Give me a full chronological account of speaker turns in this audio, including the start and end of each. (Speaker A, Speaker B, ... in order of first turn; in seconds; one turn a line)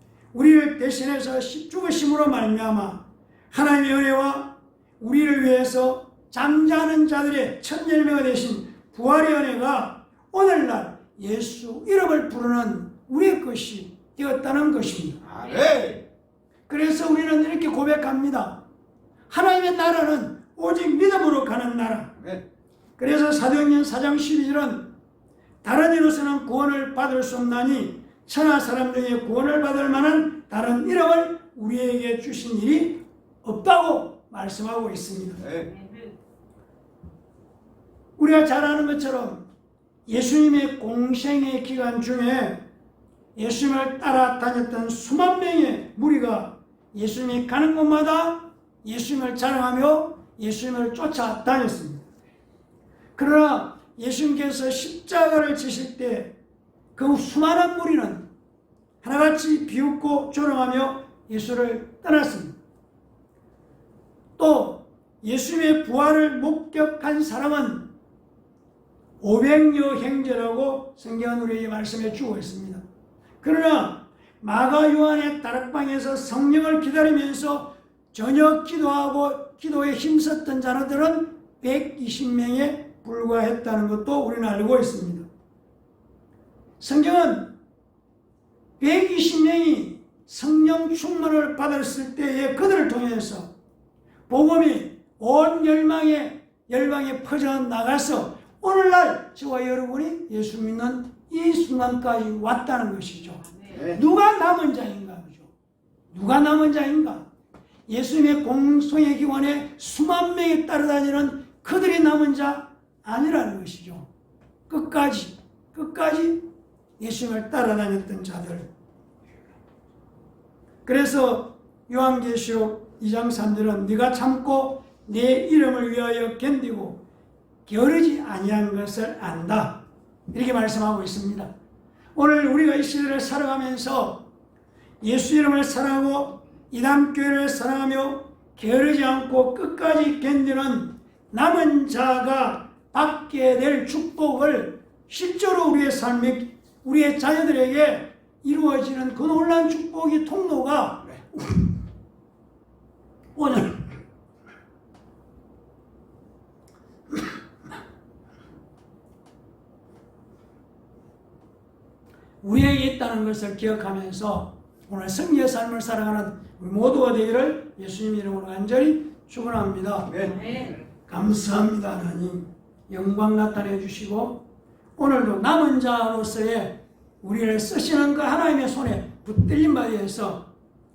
Speaker A: 0.3-15.2
Speaker B: 15.2-16.0
Speaker A: 16.7-18.6
Speaker A: 19.3-22.2
Speaker A: 23.0-24.9
Speaker A: 25.6-35.5
Speaker B: 35.4-35.8
Speaker A: 38.2-39.4
Speaker A: 40.1-42.6
Speaker A: 43.3-52.0
Speaker A: 53.1-56.3
Speaker A: 56.9-58.2
Speaker A: 59.0-62.5
Speaker A: 64.4-67.9
Speaker A: 69.2-72.8
Speaker A: 73.4-85.3
Speaker A: 86.8-87.5
Speaker A: 88.8-93.5
Speaker A: 94.3-105.5
Speaker B: 103.7-104.0
Speaker A: 106.1-107.3
Speaker A: 107.9-114.1
Speaker A: 114.7-116.5
Speaker A: 117.0-118.7
Speaker A: 120.8-127.0
Speaker A: 127.7-131.5
Speaker A: 132.1-134.3
Speaker A: 135.0-151.7
Speaker A: 153.3-154.0
Speaker A: 162.4-170.4
Speaker B: 170.1-170.7
Speaker A: 171.1-174.4
Speaker A: 175.0-180.5